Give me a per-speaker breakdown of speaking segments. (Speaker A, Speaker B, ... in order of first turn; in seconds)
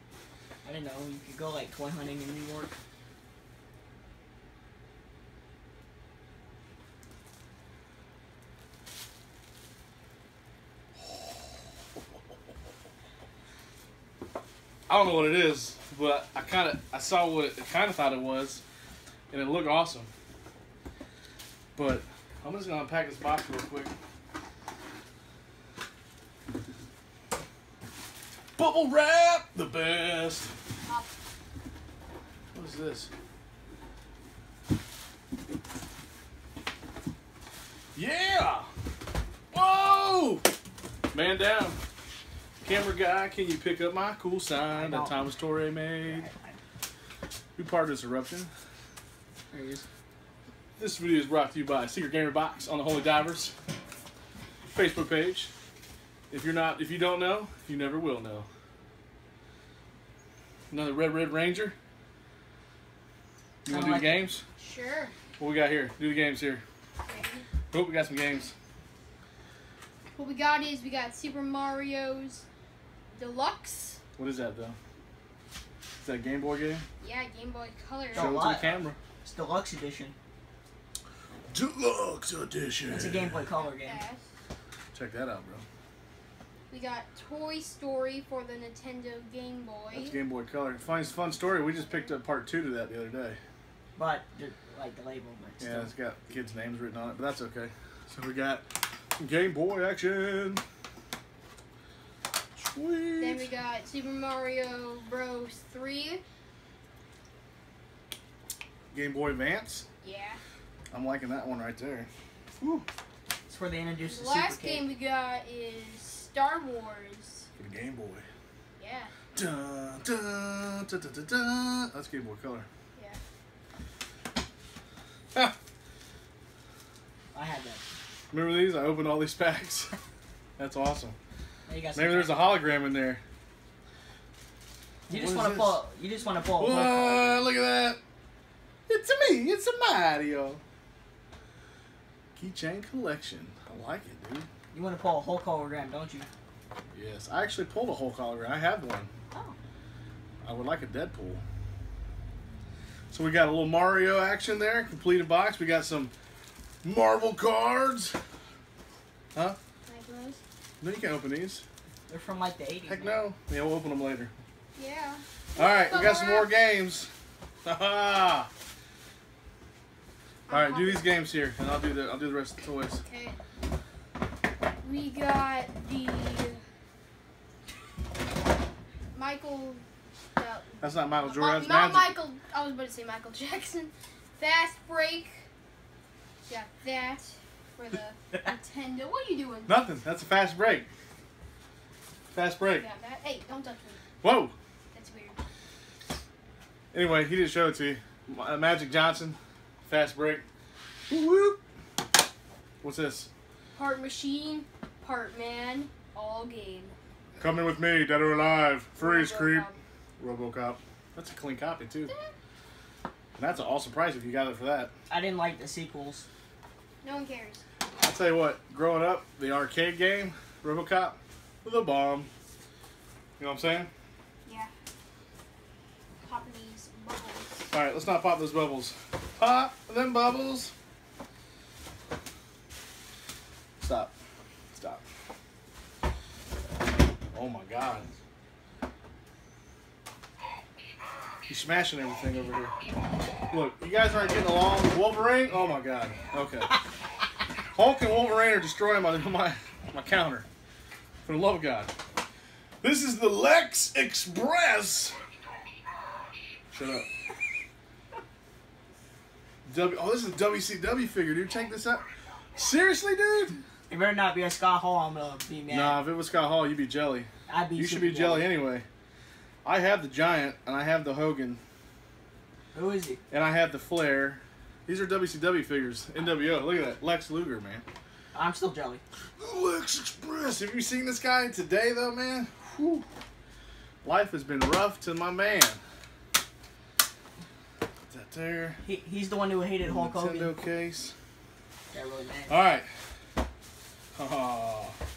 Speaker A: 0.6-2.7, 44.7-45.2, 46.0-46.6, 49.5-49.9, 63.7-64.2, 78.1-80.1, 82.9-84.0, 93.9-95.9, 113.5-114.9, 127.3-127.8, 131.7-132.6, 135.1-137.4, 144.7-146.3, 149.3-149.6, 162.1-163.2, 215.1-216.2, 263.9-266.0, 267.5-268.5, 272.7-273.2, 278.3-279.0, 288.8-290.6, 291.9-292.6
Speaker B: 14.9-18.6, 19.3-20.1, 21.7-23.9, 28.6-30.5, 32.5-33.1, 37.9-38.7, 39.5-40.5, 41.1-41.8, 42.6-46.3, 47.5-48.5, 50.8-53.5, 54.7-55.5, 56.3-58.5, 60.7-61.7, 63.6-64.4, 65.4-66.6, 67.7-68.5, 74.2-74.8, 76.0-76.8, 78.1-79.0, 81.5-83.5, 84.9-85.6, 89.9-93.4, 95.6-98.7, 99.2-100.6, 102.5-103.5, 108.9-109.8, 110.9-112.1, 112.6-112.8, 117.6-118.2, 119.3-122.7, 128.3-129.9, 130.6-131.2, 131.9-133.2, 135.1-135.8, 136.6-138.0, 138.9-140.6, 142.3-144.5, 146.9-149.1, 150.4-151.4, 153.1-156.1, 156.8-158.2, 160.8-161.6, 162.9-164.3, 165.6-167.1, 167.6-168.5, 170.5-173.0, 180.8-182.1, 189.7-190.9, 192.3-192.8, 194.2-194.5, 196.9-200.4, 201.1-201.6, 202.8-203.3, 207.4-209.7, 210.2-212.1, 213.4-214.9, 218.0-222.3, 223.4-223.9, 227.7-230.7, 233.8-234.1, 234.7-235.0, 237.3-238.1, 241.5-242.7, 243.5-246.8, 247.7-250.4, 251.2-251.9, 252.8-255.2, 256.7-257.1, 259.6-262.0, 262.5-263.6, 265.7-268.9, 269.6-271.6, 273.3-277.8, 279.4-283.1, 284.0-285.8, 288.1-288.8, 289.8-291.1, 292.5-292.9, 294.1-294.9
Speaker C: 30.9-31.1, 64.6-65.1, 67.0-67.5, 70.1-72.5, 73.1-74.0, 77.0-78.4, 83.5-84.2, 86.7-90.2, 91.8-92.1, 103.2-106.2, 110.0-110.4, 114.0-117.5, 118.8-119.1, 159.9-160.4, 164.7-166.5, 170.5-171.1, 173.0-173.4, 174.8-176.6, 179.1-179.8, 180.3-185.4, 186.4-189.8, 192.7-194.0, 194.9-195.4, 203.7-206.9, 209.0-209.8, 212.1-212.3, 217.0-217.6, 224.4-224.7, 226.2-227.7